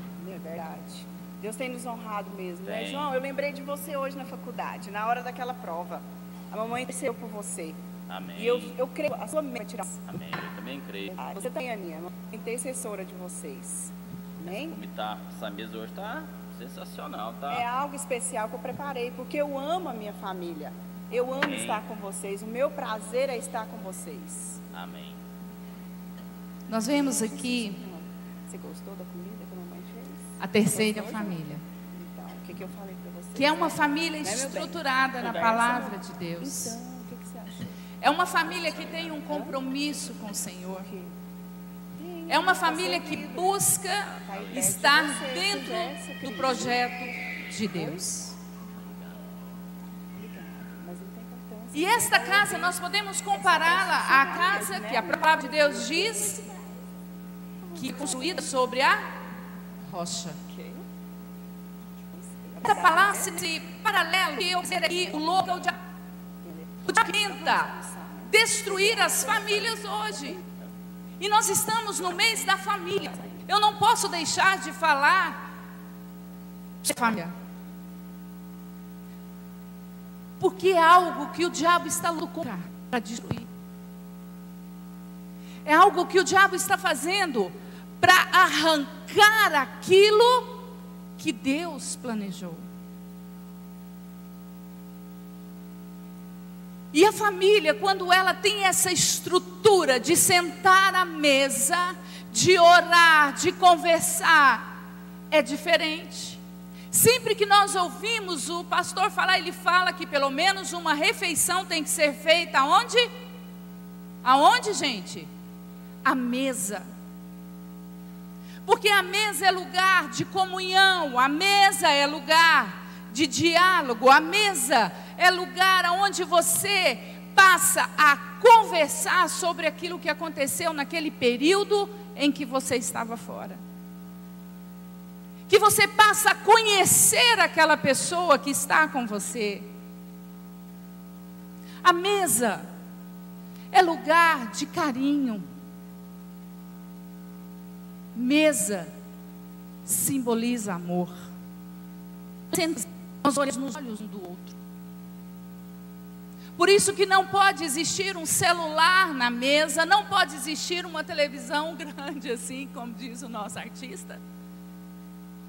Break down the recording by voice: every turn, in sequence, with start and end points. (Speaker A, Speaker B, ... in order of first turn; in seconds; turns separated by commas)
Speaker A: 0.2-7.8, Speaker B: 2.6-3.1, Speaker B: 8.1-8.7, Speaker A: 8.3-10.0, Speaker B: 10.1-11.2, Speaker A: 11.1-14.8, Speaker B: 14.7-17.6, Speaker A: 17.5-24.6, Speaker B: 21.4-21.8, Speaker B: 24.7-25.2, Speaker C: 26.7-27.8, Speaker A: 26.8-37.7, Speaker C: 30.4-31.6, Speaker C: 33.3-36.8, Speaker B: 35.2-35.6, Speaker C: 38.0-40.9, Speaker A: 39.1-41.1, Speaker A: 42.0-43.5, Speaker C: 42.3-48.4, Speaker B: 44.1-44.7, Speaker A: 44.2-46.9, Speaker A: 47.7-48.0, Speaker A: 50.1-52.8, Speaker C: 51.7-56.4, Speaker A: 53.3-56.6, Speaker C: 57.7-59.1, Speaker C: 59.8-60.4, Speaker A: 60.5-60.8, Speaker A: 61.9-63.4, Speaker C: 62.6-65.8, Speaker A: 64.9-65.2, Speaker A: 66.4-70.4, Speaker C: 66.8-67.7, Speaker C: 68.3-70.4, Speaker C: 71.2-75.5, Speaker C: 76.8-77.3, Speaker C: 80.4-83.5, Speaker C: 85.6-92.6, Speaker C: 96.9-104.7, Speaker C: 105.3-106.4, Speaker C: 106.9-113.1, Speaker C: 114.2-115.3, Speaker C: 116.0-116.9, Speaker C: 118.6-133.6, Speaker C: 135.5-139.7, Speaker C: 141.8-142.7, Speaker C: 143.7-145.4, Speaker C: 148.1-148.9, Speaker C: 149.8-151.2, Speaker C: 152.5-154.6, Speaker C: 156.6-164.2